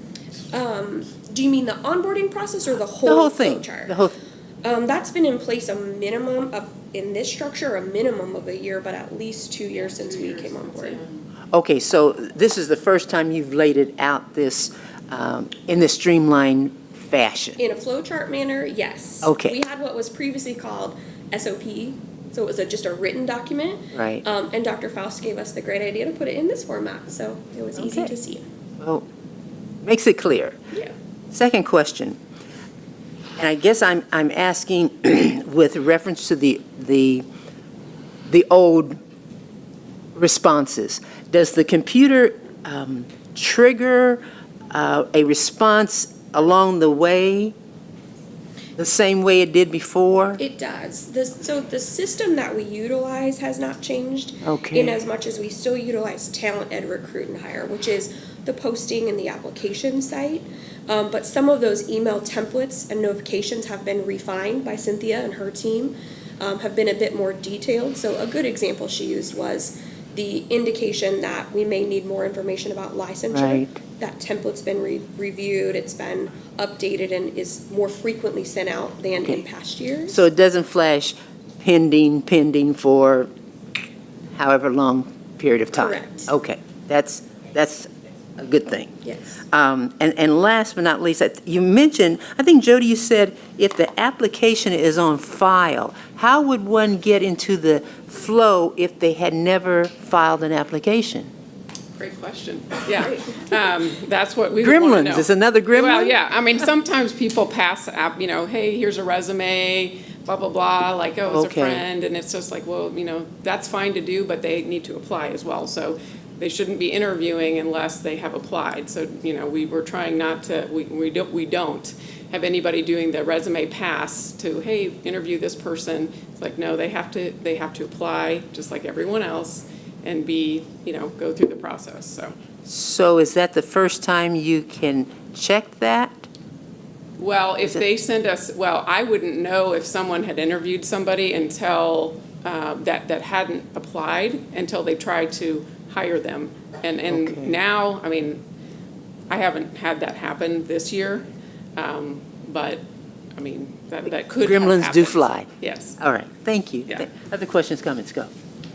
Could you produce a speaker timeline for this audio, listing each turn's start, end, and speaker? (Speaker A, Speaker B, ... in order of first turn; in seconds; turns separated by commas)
Speaker A: 0.5-4.0, Speaker B: 3.0-4.2, Speaker A: 4.6-11.0, Speaker C: 9.9-11.1, Speaker B: 11.5-17.6, Speaker A: 17.6-28.4, Speaker B: 19.2-19.6, Speaker B: 23.9-24.2, Speaker B: 27.8-28.1, Speaker B: 29.8-30.6, Speaker B: 31.3-32.2, Speaker B: 33.4-37.2, Speaker B: 38.3-39.0, Speaker B: 40.1-47.5, Speaker B: 48.8-50.4, Speaker A: 50.4-80.2, Speaker B: 54.4-55.0, Speaker B: 73.3-73.8, Speaker B: 80.1-83.3, Speaker B: 84.3-101.3, Speaker A: 85.8-86.3, Speaker A: 89.0-89.4, Speaker C: 102.0-132.3, Speaker B: 104.6-106.2, Speaker B: 111.3-111.8, Speaker B: 132.7-136.3, Speaker C: 137.2-148.4, Speaker B: 147.1-147.5, Speaker C: 149.3-151.2, Speaker C: 151.8-152.8, Speaker C: 153.4-156.0, Speaker B: 154.4-155.5, Speaker B: 156.0-158.3